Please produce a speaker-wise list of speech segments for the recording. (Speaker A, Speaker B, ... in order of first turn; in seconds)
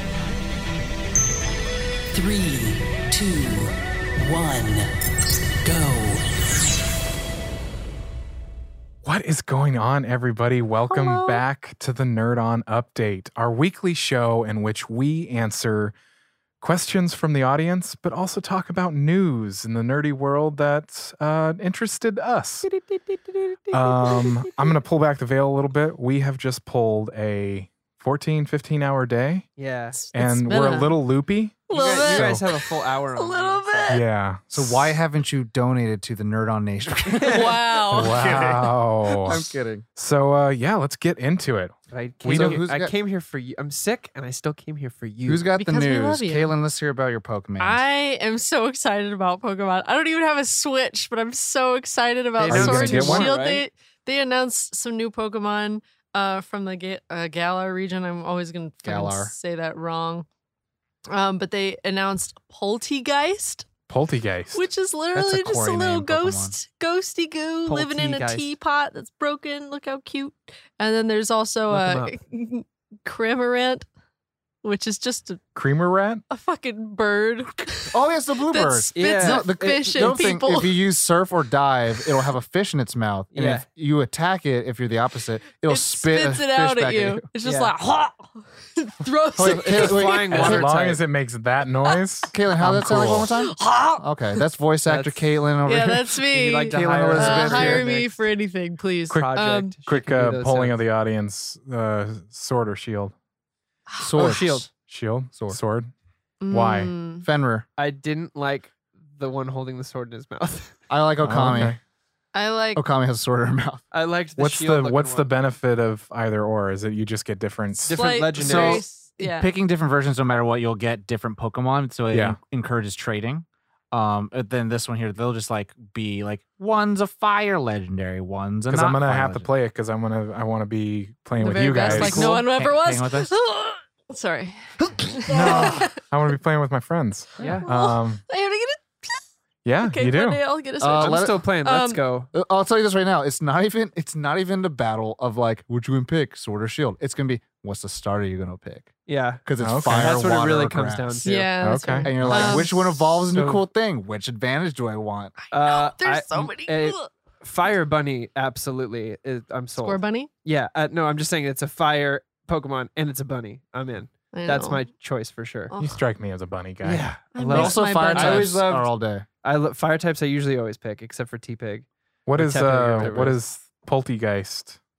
Speaker A: 2.1-4.9, 5.6-6.2
Speaker B: 9.0-15.9, 16.6-22.7, 23.7-29.5, 30.1-32.4, 33.9-35.0, 37.9-42.6, 52.5-53.3, 63.9-64.7, 75.5-76.2, 90.3-93.3, 99.9-103.2, 104.8-105.9, 106.5-106.9, 111.2-111.8, 114.4-118.2, 122.1-122.4, 128.7-132.4, 135.3-138.2, 139.7-140.4, 149.6-150.3, 151.6-152.3, 165.8-167.1, 172.3-174.8
Speaker C: 22.6-24.8, 29.9-30.9, 31.7-34.0, 37.3-38.4, 45.6-46.5, 47.6-60.3, 61.1-63.7, 64.5-73.9, 74.6-75.4, 76.3-77.9, 78.5-80.8, 85.7-90.2, 92.9-94.4, 95.7-99.7, 106.4-107.3, 112.3-112.8, 118.0-119.5, 131.4-135.9, 137.6-139.2, 139.8-142.0, 151.2-153.1, 155.4-157.1, 159.8-160.3, 164.3-164.8, 165.7-166.0, 167.3-168.6
Speaker D: 29.6-30.0, 31.7-34.0, 37.1-37.5, 41.9-45.5, 52.4-53.6, 67.7-68.5, 71.7-72.2, 79.0-80.1, 83.3-83.7, 87.4-87.7, 89.4-91.0, 94.9-95.2, 96.3-98.2, 99.1-100.8, 104.2-104.7, 107.8-110.8, 113.9-115.3, 117.8-118.8, 137.4-137.7, 140.9-142.3, 149.1-151.6, 152.2-152.8, 153.3-153.6, 155.5-165.7, 166.8-168.9, 169.4-173.4
Speaker E: 34.5-39.9, 42.3-42.9, 45.3-47.8, 52.5-53.3, 58.8-59.3, 65.2-66.5, 77.9-87.3, 89.4-90.7, 92.3-97.8, 104.0-104.7, 105.3-105.6, 107.2-107.7, 110.9-111.8, 112.8-113.8, 135.3-135.9, 140.8-141.4, 142.3-148.9, 149.4-151.2, 152.0-155.3, 167.5-169.3, 173.0-173.3
Speaker F: 118.4-129.5, 131.9-133.3